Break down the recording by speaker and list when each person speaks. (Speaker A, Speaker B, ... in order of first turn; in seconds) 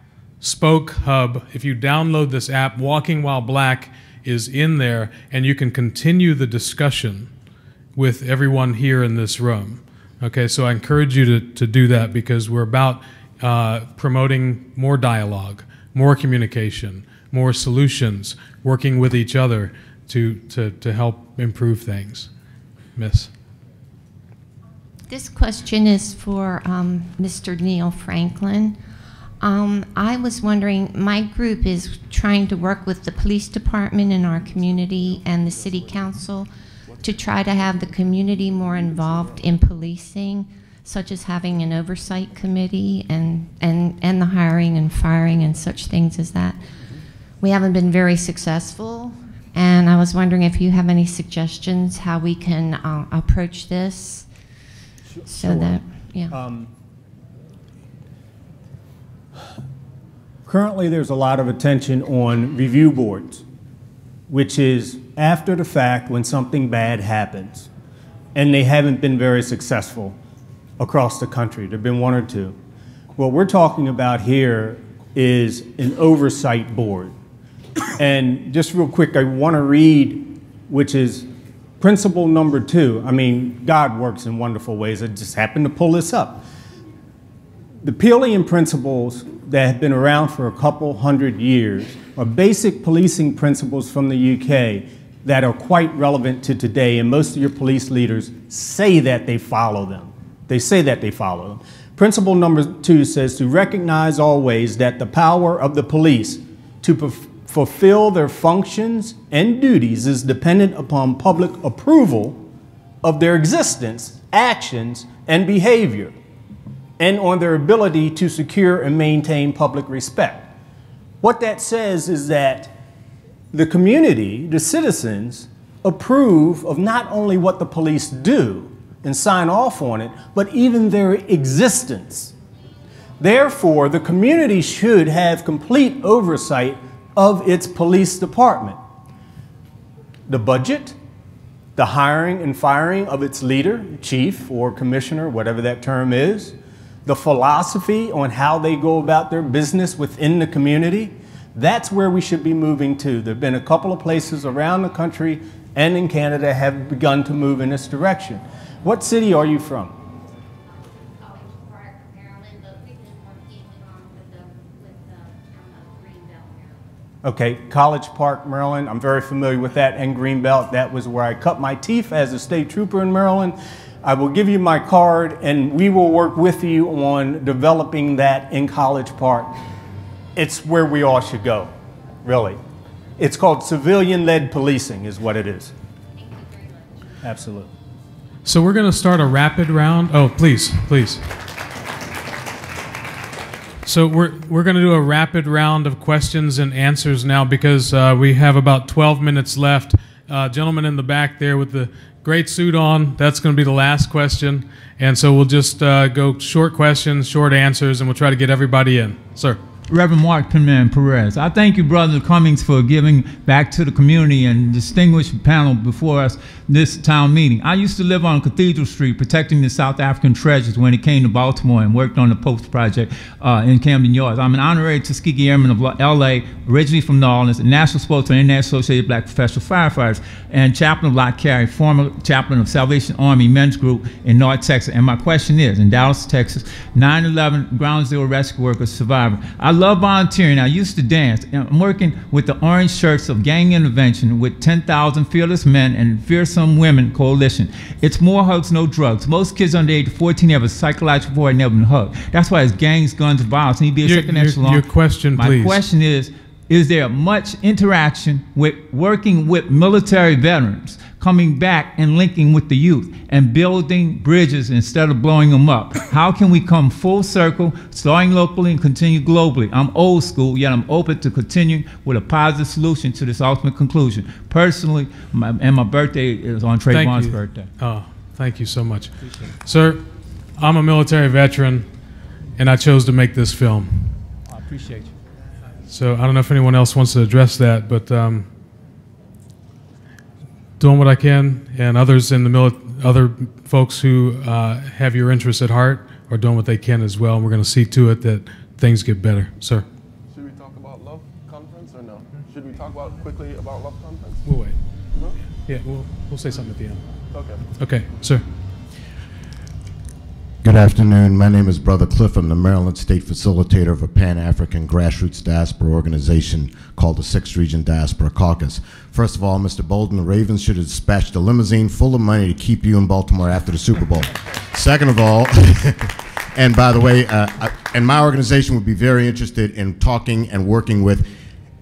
Speaker A: 0.4-7.3, 8.0-22.3, 23.0-23.3, 188.4-191.2, 193.9-209.6, 254.0-255.8, 276.9-280.1, 280.6-281.9, 282.6-284.1, 285.9-288.5, 290.8-299.9, 304.4-304.8, 305.7-307.0, 307.8-308.4
Speaker B: 25.1-28.8, 29.4-46.6, 47.4-54.3, 55.3-56.4
Speaker C: 55.1-56.7, 60.5-63.4, 64.3-67.7, 68.3-70.2, 70.8-72.6, 73.2-77.2, 78.0-81.3, 81.8-86.5, 87.8-112.5, 113.0-116.1, 117.0-120.5, 121.2-122.8, 123.5-132.3, 133.2-138.8, 140.3-141.0, 141.8-146.6, 147.1-160.0, 167.2-179.6, 180.4-181.7, 182.2-182.6, 183.2-185.7, 187.2-187.7
Speaker D: 209.9-277.7
Speaker E: 300.3-304.4, 307.3-307.6
Speaker F: 310.6-331.3